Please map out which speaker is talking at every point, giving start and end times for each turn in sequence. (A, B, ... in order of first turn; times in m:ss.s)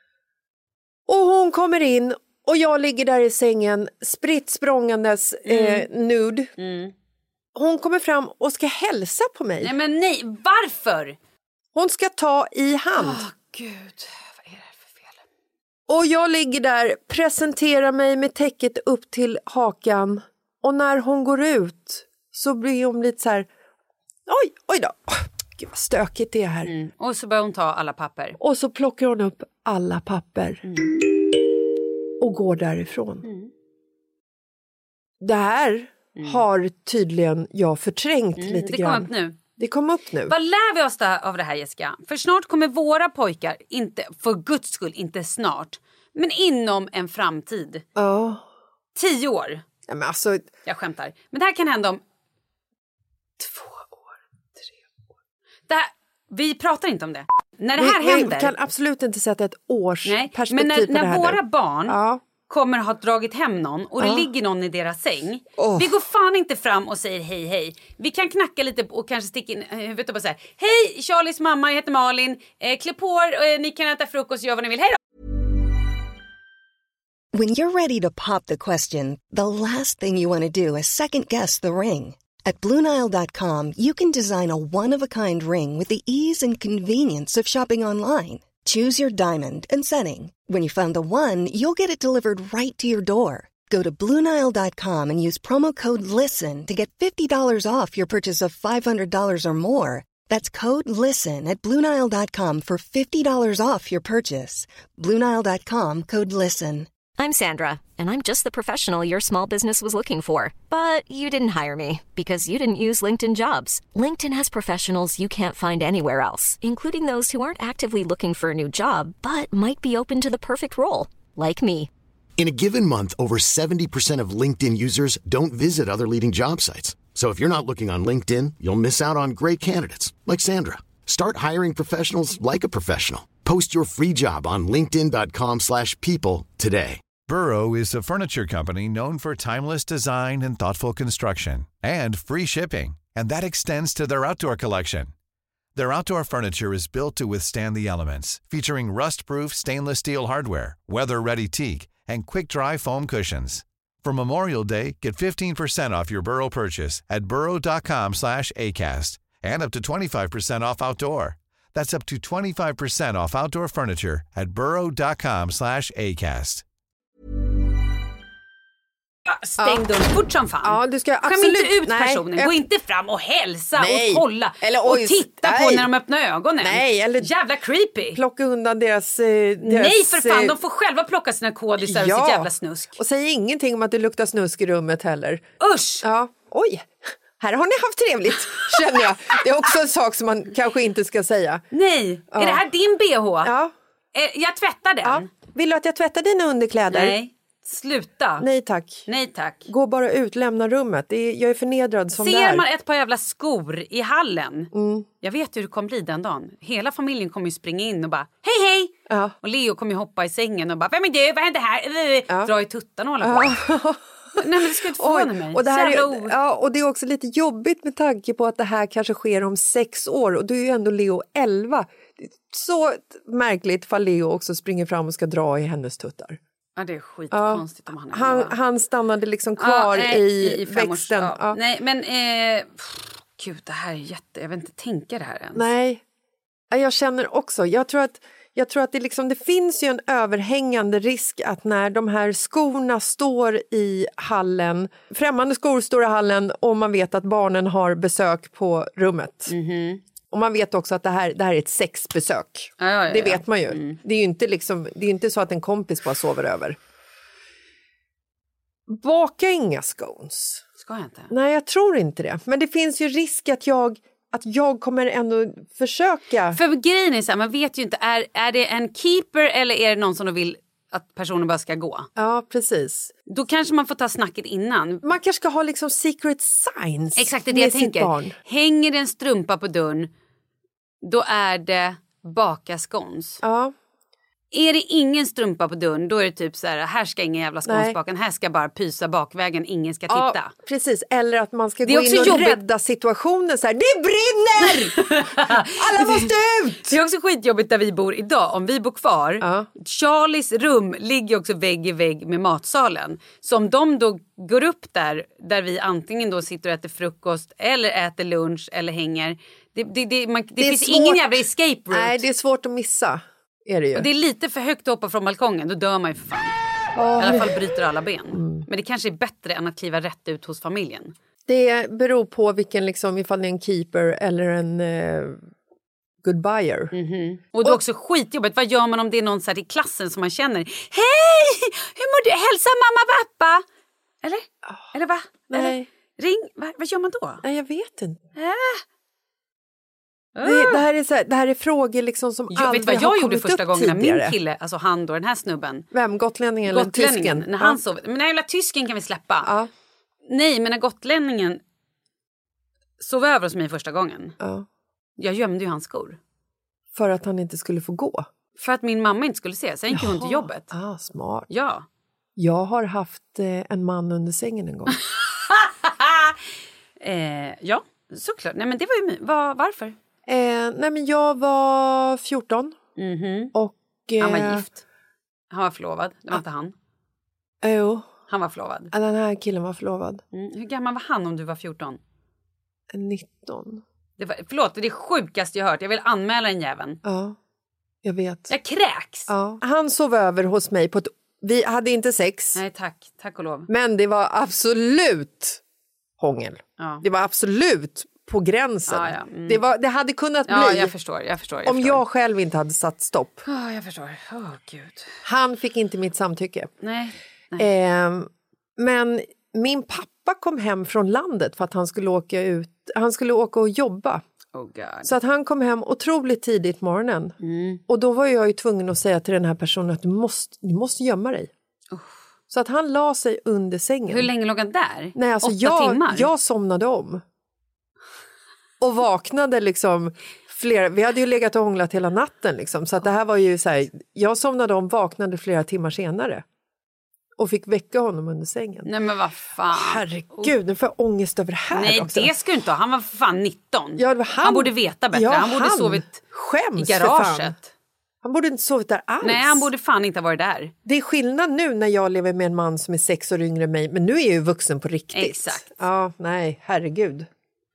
0:01.1-0:06.5 A
0:05.4-0:05.9 B
0:06.6-0:06.9 B
0:07.5-0:09.7 A
0:09.6-0:11.2 B
0:11.7-0:13.2 A
0:13.0-0:15.2 B
0:15.9-0:23.5 A
0:24.3-0:26.7 A
0:26.6-0:28.4 B
0:28.4-0:30.9 A
0:30.6-0:31.0 B
0:32.2-0:33.3 A
0:33.2-0:33.5 B
0:35.2-0:40.3 A
0:36.2-0:36.4 B
0:38.4-0:39.4 B
0:40.3-0:47.8 B
0:48.0-0:48.4 A
0:48.9-0:49.6 B
0:49.9-0:50.4 A
0:50.6-0:52.0 B
0:53.4-0:53.9 A
0:55.7-0:58.5 B
0:57.8-1:02.2 A
1:00.0-1:15.0 B
1:04.0-1:04.3 A
1:05.6-1:05.9 A
1:17.3-1:46.9 C
1:47.2-2:01.9 D
2:02.4-2:17.0 E
2:17.2-2:25.1 F
2:25.7-2:46.6 F
2:49.2-2:58.2 B
2:49.6-2:49.9 A
2:50.6-2:52.6 A
2:53.8-2:55.9 A
2:56.6-2:57.3 A
2:58.1-3:00.6 A
2:59.6-3:03.0 B
3:01.8-3:05.4 A
3:05.6-3:06.0 B
3:06.0-3:11.6 A
3:11.7-3:13.5 B
3:12.3-3:12.6 A
3:13.4-3:13.7 A
3:14.1-3:15.3 B
3:15.0-3:17.2 A
3:16.9-3:18.5 B
3:18.4-3:19.1 A
3:19.1-3:19.7 B
3:19.7-3:22.6 A
3:22.2-3:33.6 B
3:24.7-3:25.1 A
3:29.1-3:29.3 A
3:33.2-3:46.4 A
3:34.4-3:36.3 B
3:46.8-3:48.6 B
3:47.3-3:51.6 A
3:49.6-3:55.6 B
3:55.5-3:56.0 A
3:56.7-4:09.5 A
4:09.5-4:10.0 B
4:10.3-4:16.8 A
4:12.8-4:14.0 B
4:18.9-4:20.6 A
4:20.8-4:21.3 B
4:21.3-4:26.6 A
4:26.5-4:32.1 B
4:32.2-4:33.1 A
4:33.3-4:35.0 B
4:35.0-4:38.4 A
4:37.2-4:40.1 B
4:41.0-4:43.4 B
4:43.4-4:43.7 A
4:44.5-4:50.5 B
4:47.6-4:48.0 A
4:50.1-4:57.0 A
4:51.8-4:52.6 B
4:54.6-5:12.2 B
4:59.4-4:59.7 A
5:10.6-5:14.1 A
5:13.9-5:16.5 B
5:17.0-5:17.6 A
5:17.2-5:21.1 B
5:18.3-5:18.7 A
5:21.5-5:25.4 A
5:26.2-5:26.9 A
5:26.9-5:33.6 B
5:34.2-5:37.4 B
5:35.5-5:35.9 A
5:37.4-5:38.2 A
5:38.4-5:38.8 B
5:40.3-5:40.8 B
5:40.4-5:44.3 A
5:42.5-5:45.9 B
5:45.9-5:47.8 A
5:46.6-5:49.5 B
5:49.4-5:49.7 A
5:50.2-5:51.6 B
5:53.0-5:54.4 B
5:54.4-5:54.7 A
5:55.2-5:56.2 B
5:56.9-5:58.3 A
5:58.6-6:00.7 B
5:59.9-6:01.5 A
6:01.5-6:01.8 B
6:02.4-6:05.0 A
6:05.1-6:06.3 B
6:07.0-6:10.0 B
6:10.2-6:12.8 A
6:13.0-6:13.5 B
6:13.5-6:14.6 A
6:14.2-6:14.8 B
6:15.5-6:16.7 B
6:17.6-6:18.1 A
6:18.3-6:18.9 B
6:18.9-6:20.2 A
6:20.3-6:22.0 B
6:22.9-6:23.8 A
6:24.2-6:27.0 B
6:27.0-6:27.4 A
6:28.0-6:28.5 A
6:28.5-6:29.3 B
6:29.3-6:32.6 A
6:32.5-6:33.7 B
6:33.7-6:35.6 A
6:36.2-6:40.9 A
6:36.8-6:37.0 B
6:38.9-6:39.6 B
6:40.5-6:42.0 B
6:41.6-6:43.4 A
6:43.4-6:45.1 B
6:45.2-6:46.7 A
6:46.8-6:47.7 B
6:47.6-6:54.2 A
6:54.5-6:55.1 B
6:55.0-6:57.4 A
6:57.4-6:57.8 B
6:57.9-7:01.5 A
7:02.5-7:04.3 A
7:04.1-7:06.3 B
7:05.1-7:07.2 A
7:08.8-7:16.4 A
7:17.4-7:18.9 A
7:18.8-7:20.5 B
7:19.7-7:22.3 A
7:21.7-7:26.2 B
7:24.0-7:27.5 A
7:26.8-7:27.7 B
7:28.2-7:29.7 A
7:29.2-7:30.7 B
7:30.8-7:37.3 A
7:35.1-7:35.7 B